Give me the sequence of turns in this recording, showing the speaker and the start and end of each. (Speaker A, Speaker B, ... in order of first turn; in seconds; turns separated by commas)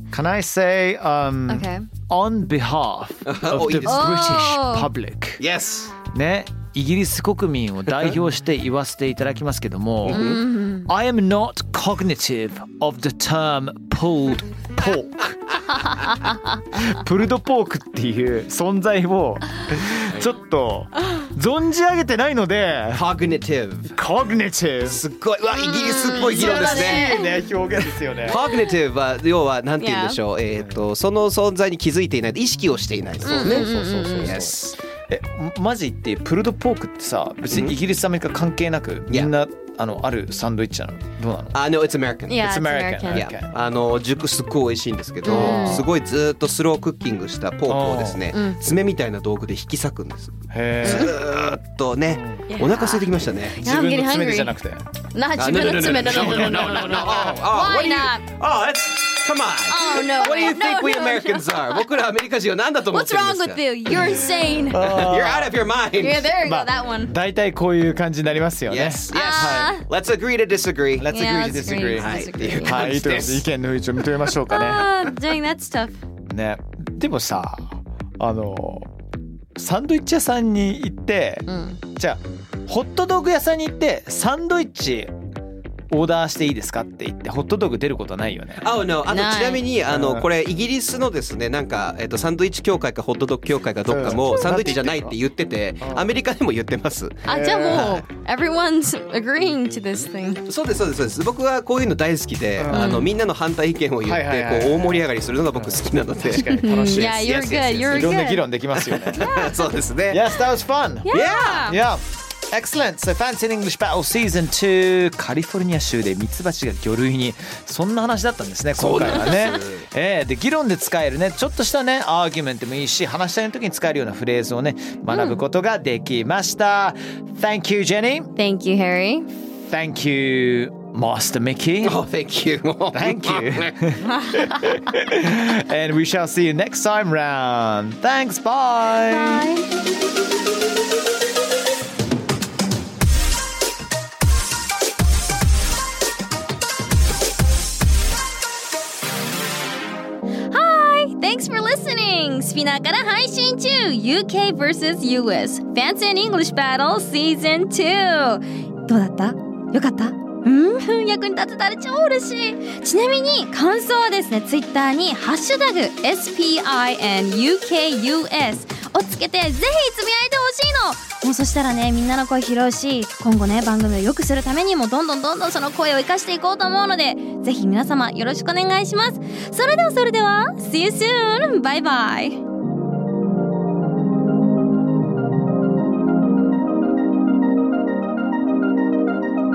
Speaker A: 0.1-5.4, Speaker B: 1.5-1.9, Speaker C: 3.2-4.5, Speaker B: 3.8-4.9, Speaker C: 5.4-6.0, Speaker A: 6.1-15.3, Speaker C: 10.0-10.4, Speaker B: 10.1-10.9, Speaker A: 16.7-23.1, Speaker C: 22.9-24.0, Speaker A: 23.9-25.0, Speaker C: 24.8-27.1, Speaker B: 25.5-27.4, Speaker A: 26.1-28.4, Speaker C: 28.2-34.7, Speaker B: 28.3-28.7, Speaker B: 29.8-30.2, Speaker A: 33.2-41.6, Speaker B: 33.2-34.4, Speaker C: 37.5-37.8, Speaker C: 41.5-42.4, Speaker B: 42.3-43.3, Speaker A: 42.4-43.5, Speaker C: 43.1-53.6, Speaker B: 45.2-45.8, Speaker A: 45.2-45.9, Speaker A: 47.7-48.3, Speaker B: 48.3-48.6, Speaker A: 50.5-51.1, Speaker B: 50.8-51.1, Speaker A: 52.1-52.4, Speaker B: 52.5-53.1, Speaker B: 53.6-54.5, Speaker A: 53.6-54.9, Speaker B: 55.1-58.2, Speaker C: 55.4-66.3, Speaker A: 56.1-57.5, Speaker B: 59.7-61.9, Speaker B: 62.9-64.8, Speaker A: 64.7-65.6, Speaker B: 66.0-67.1, Speaker A: 66.4-69.7, Speaker C: 68.7-71.1, Speaker B: 69.1-69.8, Speaker A: 71.0-74.9, Speaker B: 71.1-72.9, Speaker C: 71.7-73.4, Speaker B: 74.5-76.0, Speaker A: 76.3-78.9, Speaker A: 79.5-85.1, Speaker B: 81.5-81.8, Speaker A: 85.9-88.8, Speaker C: 88.6-98.0, Speaker B: 89.1-89.6, Speaker A: 89.9-90.3, Speaker A: 93.8-95.2, Speaker A: 95.8-96.1, Speaker B: 97.2-100.4, Speaker A: 97.2-98.0, Speaker C: 100.5-108.2, Speaker A: 102.5-103.1, Speaker B: 102.7-103.1, Speaker A: 104.0-109.3, Speaker B: 106.4-108.4, Speaker C: 108.8-110.2, Speaker B: 109.2-109.6, Speaker A: 110.1-128.3, Speaker B: 111.0-111.8, Speaker C: 111.1-111.7, Speaker C: 118.8-119.9, Speaker B: 125.1-125.4, Speaker B: 128.3-129.3, Speaker A: 129.7-132.0, Speaker C: 131.8-133.7, Speaker A: 132.9-139.4, Speaker B: 134.2-134.4, Speaker B: 139.0-139.7, Speaker B: 150.5-182.4